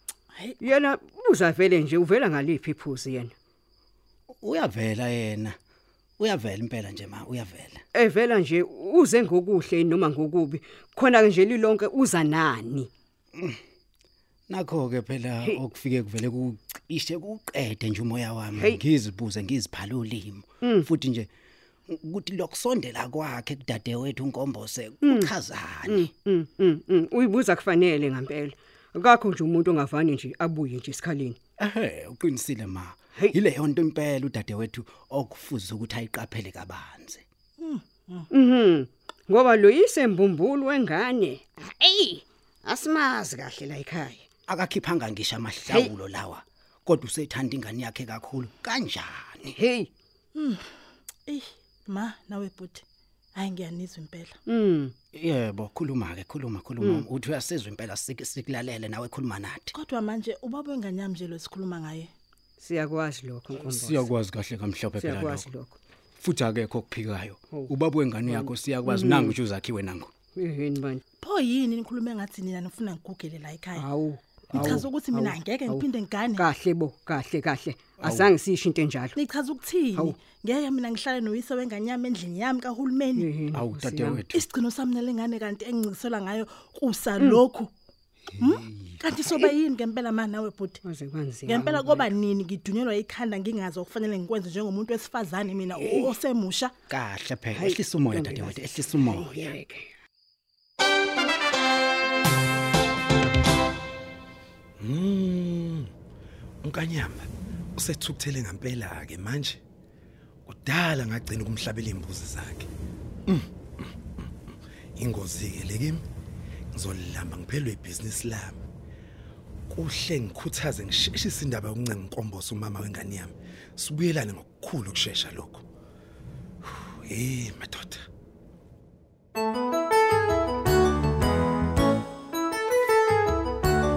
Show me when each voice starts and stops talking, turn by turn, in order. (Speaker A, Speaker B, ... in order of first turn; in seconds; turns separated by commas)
Speaker A: 0.3-0.7, Speaker B: 0.6-3.3, Speaker C: 4.4-5.6, Speaker C: 6.2-7.8, Speaker B: 7.9-12.9, Speaker C: 13.3-13.6, Speaker C: 14.5-21.3, Speaker B: 20.6-20.9, Speaker C: 21.9-26.1, Speaker B: 25.0-25.3, Speaker B: 25.9-31.4, Speaker C: 31.6-37.2, Speaker A: 37.6-38.3, Speaker B: 38.3-44.2, Speaker C: 44.5-49.6, Speaker B: 49.5-49.9, Speaker A: 50.3-50.7, Speaker A: 51.2-54.4, Speaker B: 54.5-54.9, Speaker C: 55.1-59.7, Speaker B: 56.8-57.0, Speaker A: 59.7-62.1, Speaker B: 62.6-64.1, Speaker C: 63.5-65.5, Speaker B: 65.0-65.8, Speaker C: 66.2-70.1, Speaker B: 68.2-69.4, Speaker B: 70.3-71.0, Speaker A: 71.2-73.8, Speaker B: 73.8-79.2, Speaker C: 74.5-74.8, Speaker A: 74.5-76.5, Speaker C: 78.0-78.3, Speaker A: 79.2-83.3, Speaker B: 83.2-84.2, Speaker C: 83.5-84.5, Speaker A: 84.3-87.7, Speaker A: 88.4-90.8, Speaker B: 90.8-92.0, Speaker A: 91.5-96.7, Speaker B: 95.8-96.1, Speaker C: 96.9-99.5, Speaker B: 97.5-99.9, Speaker D: 104.8-105.9, Speaker D: 106.6-109.6, Speaker D: 110.5-112.7, Speaker D: 113.3-113.9, Speaker D: 115.0-116.0, Speaker D: 116.7-118.6, Speaker D: 119.7-125.6, Speaker D: 127.1-128.0